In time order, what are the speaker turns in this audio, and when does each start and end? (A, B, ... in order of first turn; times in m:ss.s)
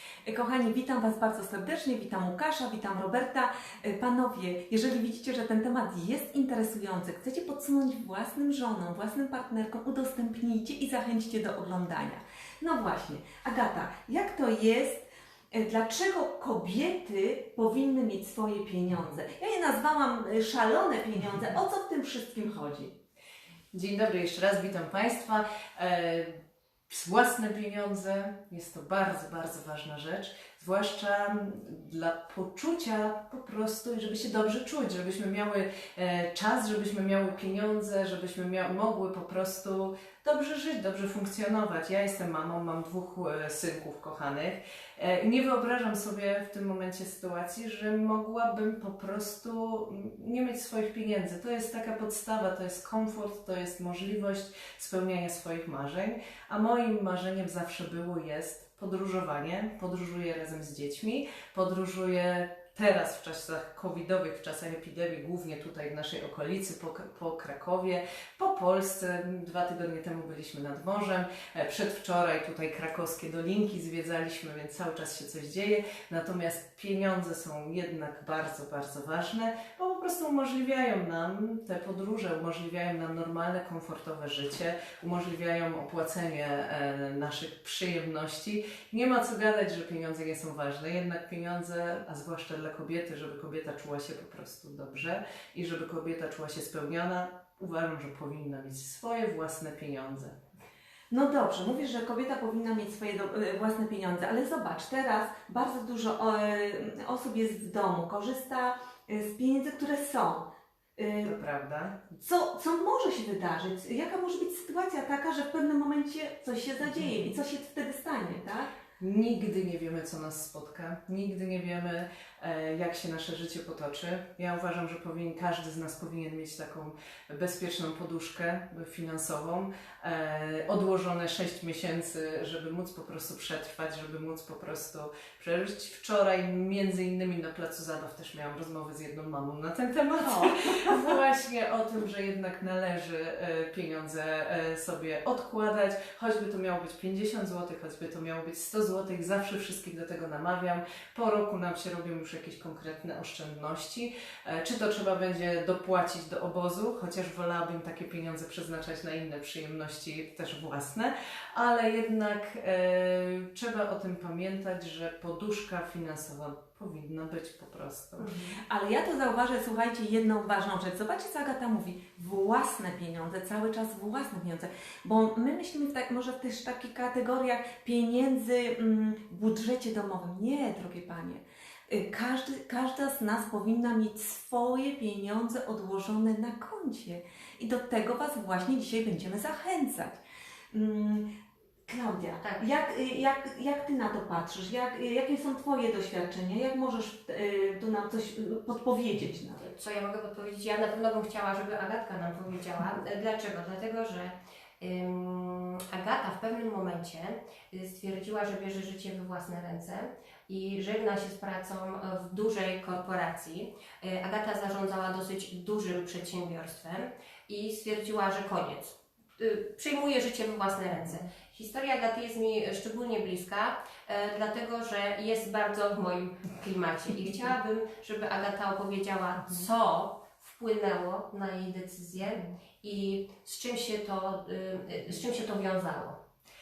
0:00.2-0:22.9 A
0:23.7-1:40.4 B
1:41.1-1:51.4 A
1:51.2-1:52.1 B
1:52.2-1:58.7 A
1:59.0-2:48.4 B
2:20.2-2:21.0 A
2:48.2-2:48.5 C
2:48.6-3:10.2 A
3:10.7-3:11.3 A
3:11.9-3:19.6 A
3:12.4-3:12.7 C
3:19.6-3:56.2 C